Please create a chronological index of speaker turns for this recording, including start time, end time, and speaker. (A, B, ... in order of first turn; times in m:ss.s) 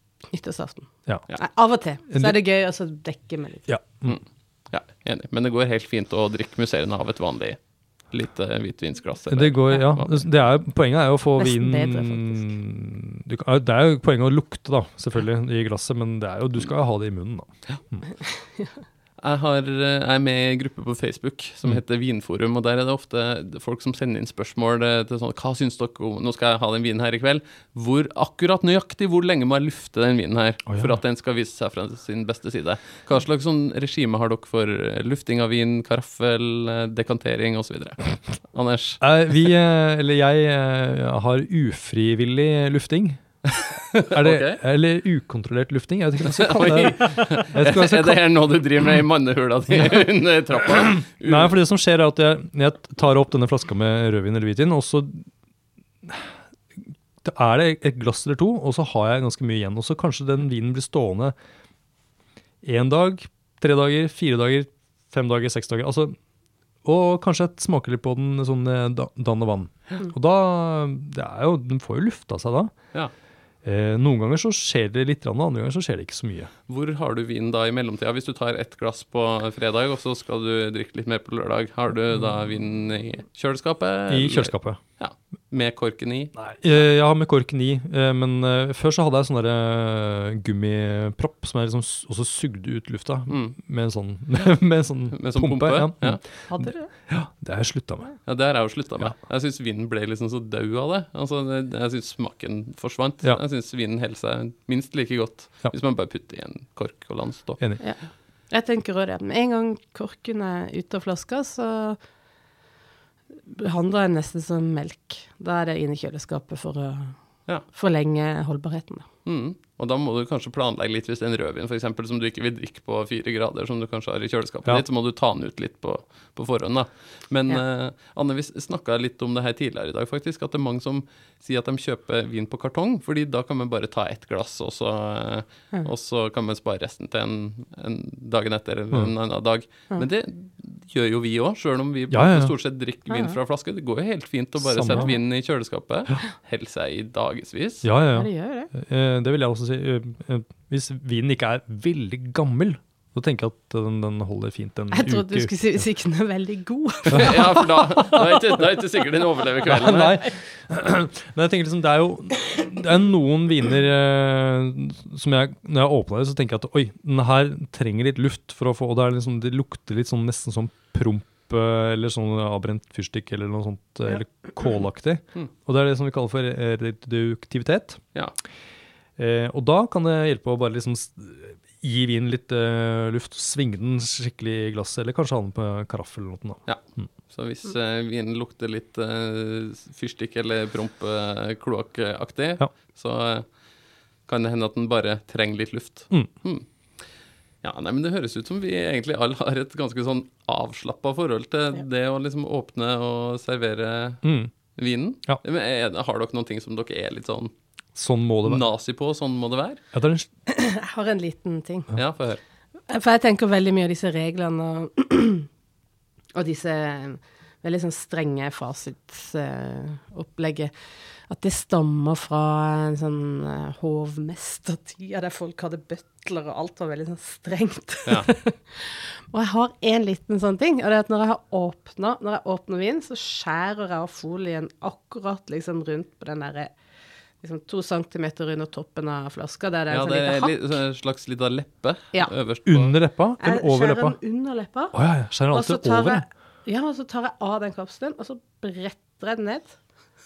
0:00.3-0:03.7 A
0:02.1-0:02.4 B
0:03.7-0:04.2 B
0:04.7-0:07.6 C
0:08.1-0:10.2 C
0:09.3-0:18.1 B
0:11.4-0:12.5 A
0:19.2-0:39.0 C
0:30.7-0:31.0 B
0:39.0-0:43.2 B
0:43.5-0:44.6 C
0:44.1-0:48.2 B
0:46.2-0:51.5 C
0:49.7-0:50.0 B
0:51.2-0:55.2 B
0:56.0-0:56.3 B
0:57.2-1:01.3 B
1:02.6-1:06.2 B
1:06.8-1:12.7 B
1:13.6-1:16.5 B
1:16.7-1:26.3 C
1:24.1-1:24.8 B
1:26.4-1:38.1 B
1:33.3-1:33.6 C
1:35.1-1:36.2 C
1:36.5-1:36.9 A
1:38.2-1:47.6 C
1:48.5-1:52.0 A
1:53.5-1:57.1 A
1:57.7-1:59.1 A
1:59.2-2:27.9 C
2:22.1-2:22.5 B
2:23.1-2:23.4 A
2:24.6-2:25.1 B
2:24.9-2:25.2 A
2:27.8-2:35.5 B
2:28.1-2:28.7 A
2:34.9-2:38.3 A
2:37.1-2:40.2 C
2:37.1-2:37.6 B
2:39.6-2:58.0 B
2:59.2-3:06.6 B
3:06.7-3:13.4 C
3:14.3-3:16.6 C
3:17.6-3:24.2 C
3:24.2-3:24.5 B
3:24.8-3:27.5 C
3:27.9-3:28.6 B
3:28.4-3:29.8 C
3:29.9-3:30.3 B
3:30.5-3:31.9 A
3:32.0-3:32.4 C
3:32.9-3:35.5 A
3:36.3-3:40.7 A
3:41.3-3:56.7 A
3:57.4-4:00.6 A
3:59.9-4:02.9 C
4:02.6-4:04.2 B
4:03.4-4:04.9 A
4:04.9-4:06.2 B
4:05.5-4:09.8 A